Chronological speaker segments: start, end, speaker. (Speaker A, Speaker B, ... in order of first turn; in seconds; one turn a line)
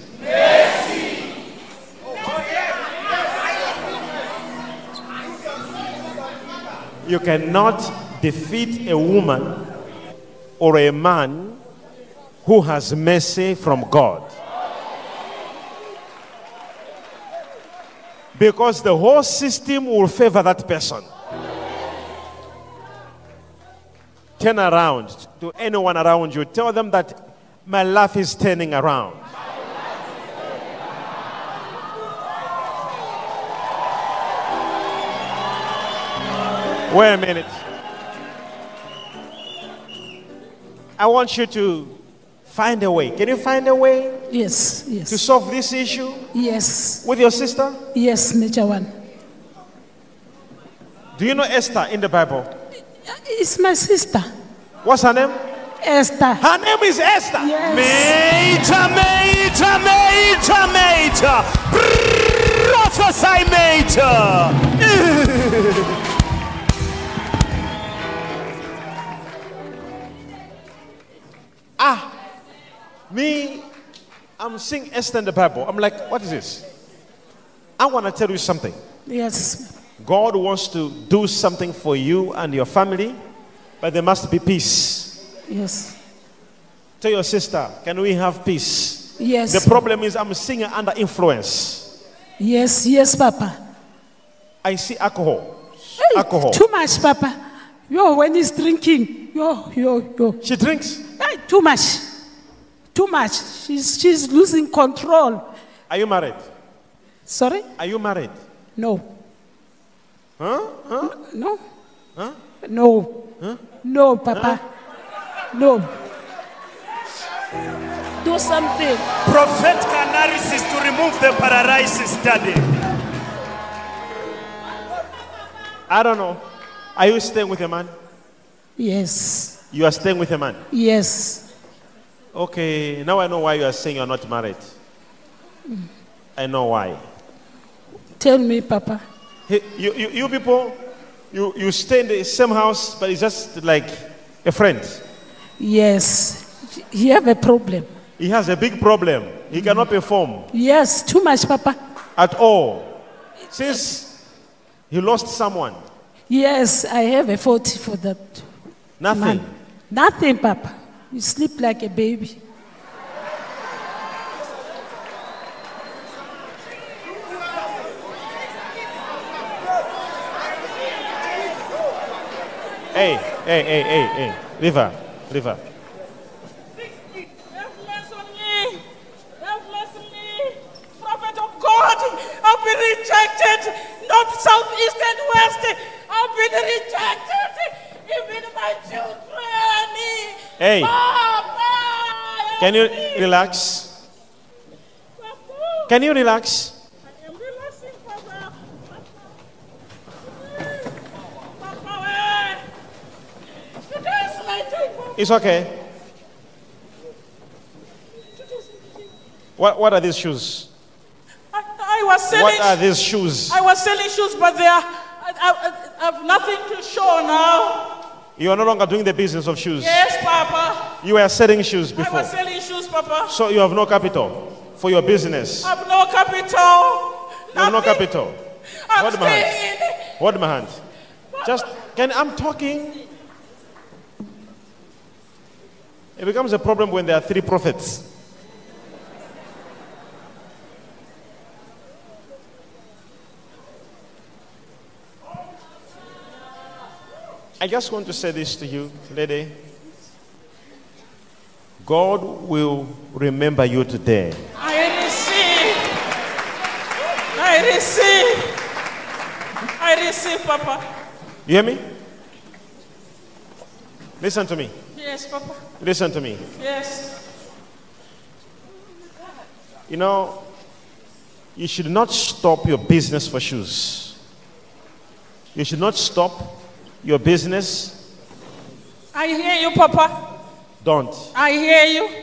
Speaker A: 7.0-9.7
Speaker A: 10.6-11.6
Speaker A: 12.4-14.3
Speaker A: 18.4-21.1
Speaker A: 24.4-29.3
Speaker A: 36.9-37.6
Speaker A: 41.0-44.2
Speaker B: 44.3-45.2
Speaker A: 45.1-46.3
Speaker B: 46.3-47.0
Speaker A: 47.0-47.8
Speaker B: 47.9-48.9
Speaker A: 51.2-52.5
Speaker B: 53.1-54.3
Speaker A: 54.8-55.4
Speaker B: 55.8-56.4
Speaker A: 56.4-58.2
Speaker B: 57.4-58.1
Speaker C: 58.0-64.8
Speaker A: 71.8-72.1
Speaker A: 73.1-73.7
Speaker A: 74.4-76.7
Speaker A: 77.8-78.8
Speaker B: 79.1-79.7
Speaker A: 80.0-83.2
Speaker A: 83.8-85.2
Speaker B: 85.5-86.0
Speaker A: 87.0-91.9
Speaker B: 89.2-89.7
Speaker B: 92.4-93.6
Speaker A: 94.6-96.6
Speaker B: 96.0-97.4
Speaker B: 97.9-100.4
Speaker A: 100.4-101.0
Speaker B: 101.2-102.1
Speaker B: 102.9-105.4
Speaker A: 105.9-106.5
Speaker B: 107.3-107.7
Speaker A: 107.8-108.4
Speaker B: 108.8-109.0
Speaker A: 110.4-111.2
Speaker B: 111.1-111.6
Speaker B: 112.6-113.2
Speaker B: 113.8-114.6
Speaker A: 114.3-114.6
Speaker B: 115.5-115.9
Speaker B: 118.2-119.0
Speaker C: 119.2-122.7
Speaker A: 125.9-126.4
Speaker A: 127.0-127.9
Speaker B: 128.8-129.6
Speaker A: 129.7-130.6
Speaker B: 130.7-131.4
Speaker A: 132.3-134.7
Speaker A: 136.4-137.0
Speaker B: 138.2-139.0
Speaker A: 139.5-140.8
Speaker A: 141.3-145.0
Speaker B: 145.6-147.9
Speaker A: 148.2-150.5
Speaker B: 150.5-151.8
Speaker A: 152.2-152.9
Speaker A: 153.5-154.1
Speaker A: 154.9-155.8
Speaker B: 156.3-158.5
Speaker A: 159.0-159.5
Speaker B: 159.1-162.4
Speaker A: 172.9-175.6
Speaker D: 177.4-178.8
Speaker D: 179.4-193.3
Speaker A: 190.6-190.9
Speaker A: 192.6-193.9
Speaker D: 195.3-195.9
Speaker A: 195.9-196.8
Speaker D: 197.2-198.5
Speaker D: 201.6-202.6
Speaker D: 203.9-205.2
Speaker A: 205.2-205.7
Speaker A: 209.6-210.7
Speaker D: 211.5-212.8
Speaker A: 212.3-213.6
Speaker D: 213.5-217.8
Speaker A: 218.4-220.0
Speaker D: 219.8-220.8
Speaker A: 221.0-222.3
Speaker D: 221.9-223.3
Speaker A: 223.3-225.7
Speaker D: 225.6-228.1
Speaker A: 227.5-228.4
Speaker D: 228.9-230.1
Speaker A: 228.9-229.6
Speaker A: 230.2-230.8
Speaker D: 231.3-231.6
Speaker A: 231.4-233.0
Speaker A: 236.2-238.0
Speaker A: 247.6-249.5
Speaker A: 251.8-254.4
Speaker D: 254.6-255.8
Speaker D: 257.4-258.5
Speaker D: 259.8-260.8
Speaker A: 261.5-261.9
Speaker A: 264.2-264.8
Speaker D: 264.9-265.6
Speaker A: 265.8-266.4
Speaker D: 266.6-267.1
Speaker A: 269.9-270.4
Speaker A: 271.6-274.2
Speaker A: 275.6-278.0
Speaker D: 279.1-280.1
Speaker A: 280.8-281.3
Speaker D: 281.4-282.1